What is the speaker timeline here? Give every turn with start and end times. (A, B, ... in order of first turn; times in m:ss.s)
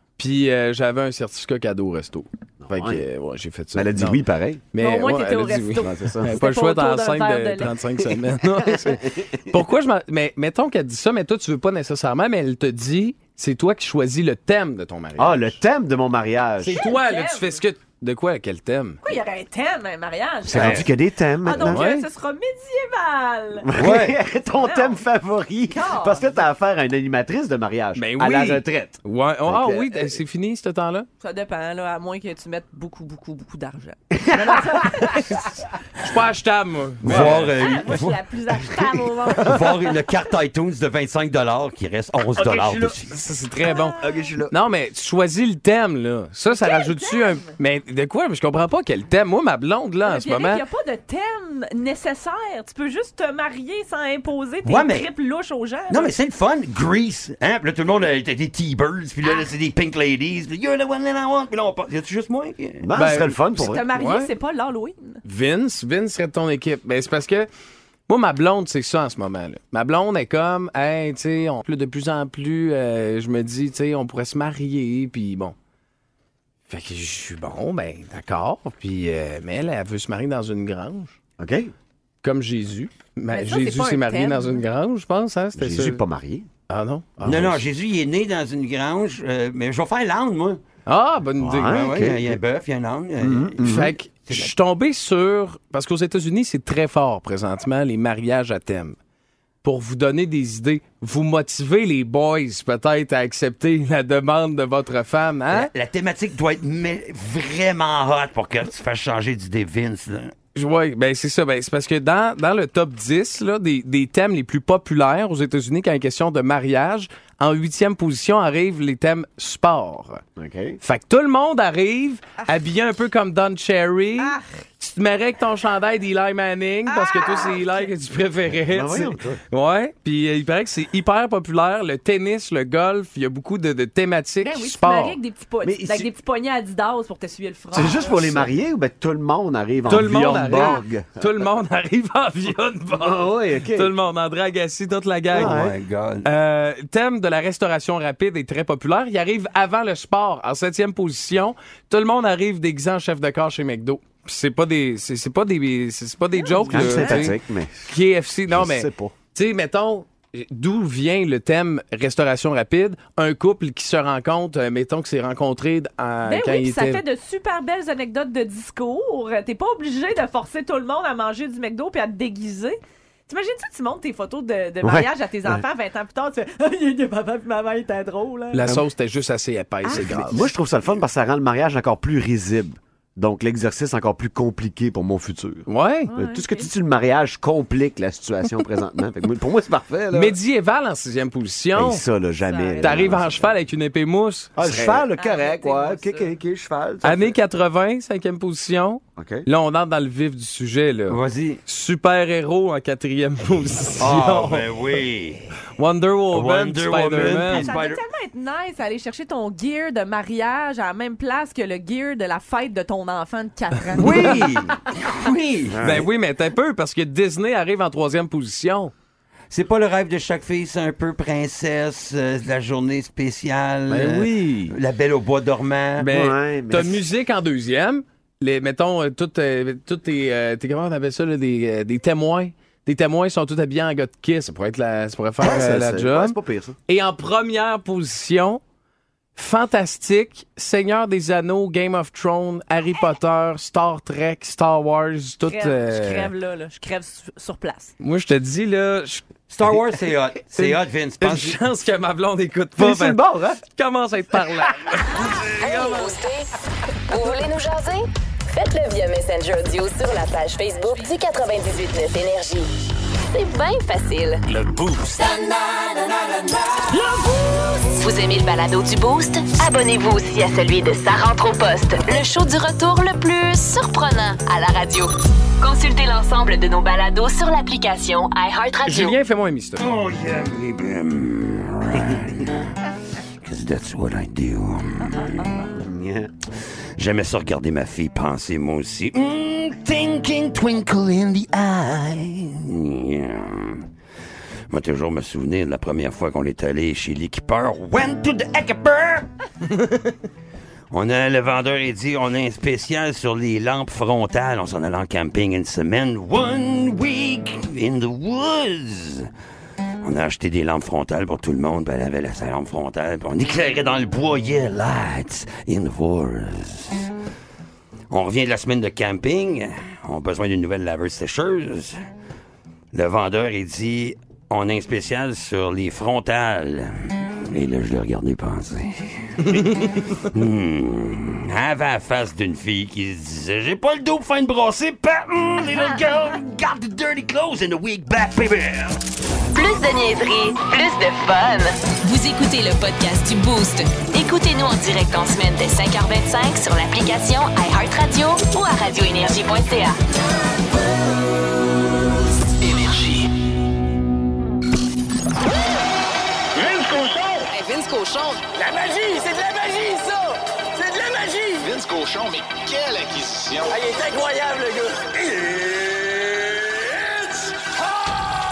0:00.2-0:04.2 A
0:02.6-0:03.0 B
0:03.7-0:04.6 B
0:04.7-0:15.6 A
0:04.7-0:07.8 C
0:05.8-0:06.4 B
0:15.2-0:16.8 B
0:16.6-0:19.0 A
0:16.8-0:17.6 C
0:19.0-0:20.8 C
0:20.5-0:21.8 B
0:20.6-0:20.8 A
0:21.4-0:23.8 C
0:21.6-0:22.1 A
0:23.7-0:30.2 B
0:23.8-0:24.2 D
0:24.6-0:25.0 C
0:25.7-0:26.3 C
0:27.9-0:31.1 A
0:31.2-0:35.5 C
0:34.3-0:35.0 B
0:35.2-0:37.5 A
0:37.0-0:43.1 D
0:37.3-0:40.1 C
0:42.4-0:43.0 B
0:43.1-0:50.6 A
0:43.6-0:43.9 C
0:44.0-0:44.5 B
0:46.4-0:47.6 C
0:50.0-0:56.1 C
0:54.6-0:55.1 D
0:55.9-1:02.9 D
1:02.8-1:03.8 B
1:02.9-1:03.4 A
1:03.6-1:05.2 C
1:03.9-1:04.3 A
1:05.2-1:07.5 A
1:08.1-1:15.5 A
1:16.7-1:21.2 A
1:21.4-1:21.7 B
1:22.2-1:26.0 A
1:23.3-1:24.6 C
1:25.6-1:26.5 B
1:26.7-1:27.6 A
1:27.2-1:30.6 D
1:30.8-1:31.8 A
1:31.4-1:32.4 B
1:31.7-1:34.5 D
1:33.2-1:33.9 B
1:33.6-1:39.0 A
1:39.6-1:45.7 A
1:45.5-1:50.3 D
1:50.5-2:00.2 A
2:00.4-2:00.8 B
2:00.8-2:15.2 A
2:04.2-2:04.5 C
2:06.9-2:07.9 C
2:08.6-2:09.4 B
2:14.4-2:18.2 C
2:15.6-2:16.0 B
2:17.7-2:21.3 B
2:18.0-2:18.5 A
2:19.9-2:25.6 A
2:22.9-2:23.9 B
2:25.3-2:25.7 B
2:25.3-2:26.3 D
2:26.2-2:47.0 A
2:36.4-2:37.3 C
2:36.7-2:37.8 B
2:38.5-2:39.1 B
2:46.2-2:58.7 C
2:54.8-2:55.6 B
2:58.5-3:00.5 A
2:59.9-3:10.4 B
3:05.7-3:06.1 A
3:06.1-3:06.7 C
3:10.1-3:12.0 A
3:11.7-3:13.4 B
3:12.4-3:13.4 C
3:12.8-3:15.0 A
3:14.6-3:17.4 B
3:15.2-3:16.3 C
3:17.0-3:24.8 A
3:19.2-3:19.4 B
3:21.1-3:21.6 D
3:24.0-3:25.4 D
3:25.8-3:27.7 A
3:26.3-3:28.0 D
3:27.2-3:34.5 C
3:33.9-3:35.8 D
3:34.0-3:34.3 A
3:35.7-3:36.1 B
3:35.8-3:38.9 A
3:39.5-3:46.1 D
3:43.9-3:44.7 A
3:46.0-3:56.4 A
3:46.1-3:47.0 B
3:55.4-3:56.8 B
3:56.9-3:58.6 A
3:59.4-4:06.3 A
4:05.4-4:07.9 C
4:08.0-4:09.2 A
4:09.5-4:11.6 D
4:10.5-4:15.5 A
4:12.8-4:13.6 B
4:15.6-4:16.5 E
4:17.0-4:22.7 E
4:23.3-4:24.5 E
4:24.5-4:25.1 F
4:27.0-4:39.1 E
4:38.8-4:39.9 A
4:39.8-4:42.6 D
4:43.4-4:45.7 D
4:45.8-4:46.3 B
4:47.0-4:53.8 D
4:54.7-4:59.3 D
5:00.9-5:09.2 D
5:10.0-5:17.0 D
5:18.1-5:21.9 D
5:22.9-5:39.0 D
5:39.5-5:50.0 E
5:56.6-5:57.4 F
5:57.4-6:00.0 C
5:59.2-5:59.7 F
6:01.1-6:04.1 F
6:03.7-6:04.9 C
6:05.0-6:05.7 F